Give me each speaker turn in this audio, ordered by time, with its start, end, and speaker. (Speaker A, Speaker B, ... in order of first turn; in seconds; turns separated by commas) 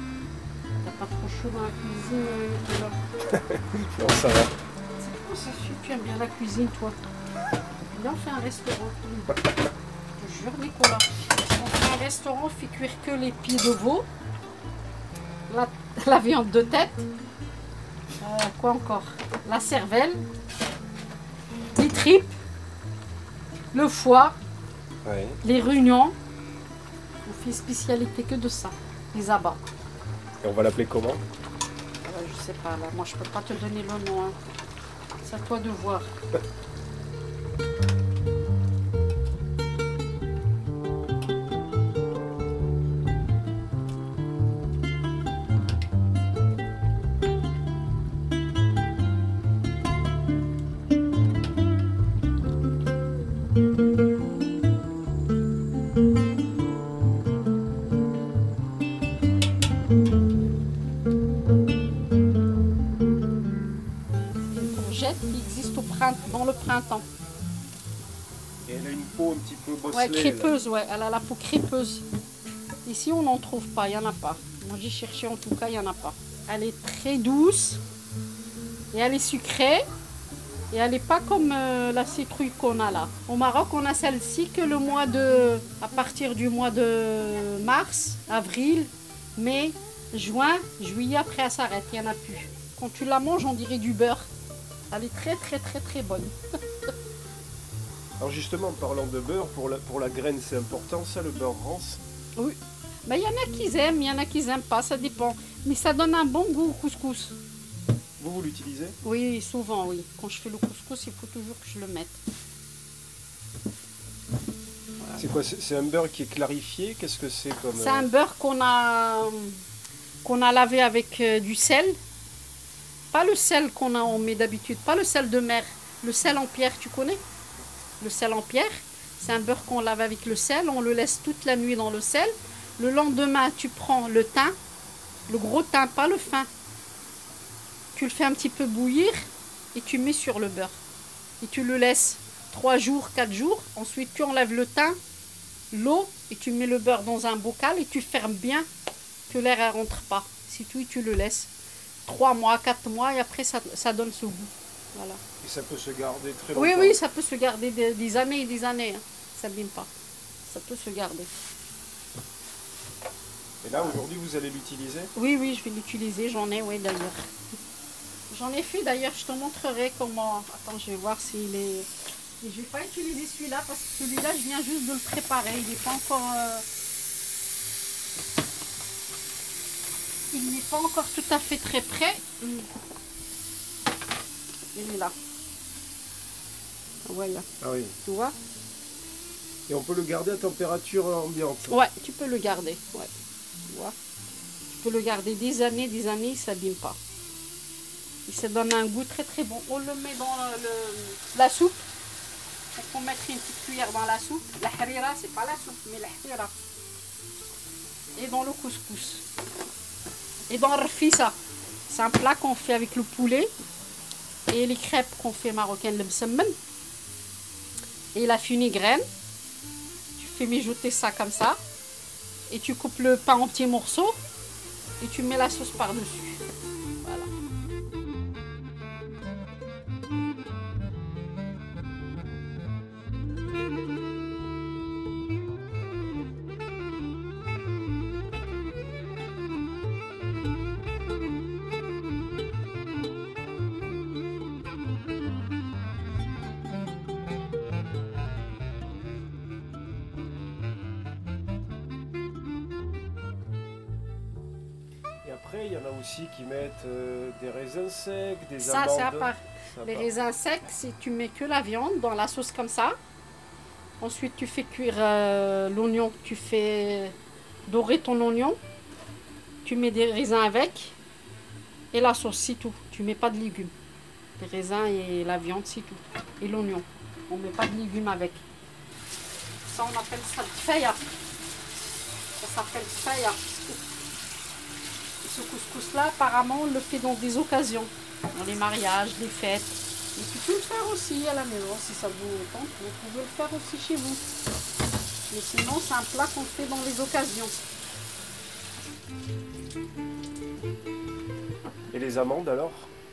Speaker A: 0.8-3.0, Speaker B: 3.3-4.5, Speaker A: 5.0-7.0, Speaker A: 7.9-9.3, Speaker A: 10.2-14.1, Speaker A: 15.5-17.1, Speaker A: 18.2-20.2, Speaker A: 21.7-22.4, Speaker A: 23.7-24.4, Speaker B: 25.1-25.4, Speaker A: 25.4-26.1, Speaker A: 27.2-29.6, Speaker B: 30.4-31.2, Speaker A: 32.0-34.4, Speaker A: 35.2-36.1, Speaker A: 64.5-67.1, Speaker B: 68.7-70.6, Speaker A: 69.9-72.1, Speaker A: 72.8-77.8, Speaker A: 78.9-79.8, Speaker A: 80.7-94.3, Speaker A: 94.9-96.3, Speaker B: 98.2-102.0, Speaker A: 102.4-107.4, Speaker B: 108.2-109.0, Speaker A: 109.0-112.2, Speaker A: 115.0-115.2, Speaker B: 115.2-118.1, Speaker A: 117.7-119.6, Speaker A: 120.2-122.0, Speaker A: 123.1-127.2, Speaker A: 128.0-134.6, Speaker A: 135.3-136.5, Speaker A: 137.9-140.8, Speaker A: 141.4-145.0, Speaker A: 145.7-148.7, Speaker A: 149.3-151.5, Speaker A: 152.1-155.2, Speaker B: 155.4-157.0, Speaker A: 156.6-159.9, Speaker A: 160.4-161.3, Speaker B: 163.6-165.1, Speaker A: 165.1-167.2, Speaker A: 168.3-171.9, Speaker A: 172.4-176.6, Speaker A: 180.3-182.7, Speaker A: 184.7-185.1, Speaker A: 187.1-187.5, Speaker B: 187.6-188.0, Speaker A: 188.1-188.3, Speaker B: 189.7-191.8, Speaker A: 191.7-193.1, Speaker A: 193.7-193.9, Speaker A: 194.7-197.0, Speaker A: 198.2-201.8, Speaker A: 202.7-206.5, Speaker A: 208.1-209.2, Speaker A: 210.5-211.3, Speaker A: 211.9-213.5, Speaker A: 214.5-216.6, Speaker A: 218.1-219.1, Speaker A: 220.2-221.6, Speaker A: 222.5-224.2, Speaker A: 225.0-226.4, Speaker A: 227.0-227.3, Speaker B: 255.2-260.1, Speaker A: 258.6-262.9, Speaker A: 264.0-267.2, Speaker A: 267.7-268.6, Speaker A: 269.6-271.0, Speaker A: 271.9-273.7, Speaker A: 274.4-278.4, Speaker A: 279.6-281.1, Speaker A: 282.4-283.8, Speaker A: 285.2-294.2, Speaker A: 295.3-297.6, Speaker B: 301.9-302.9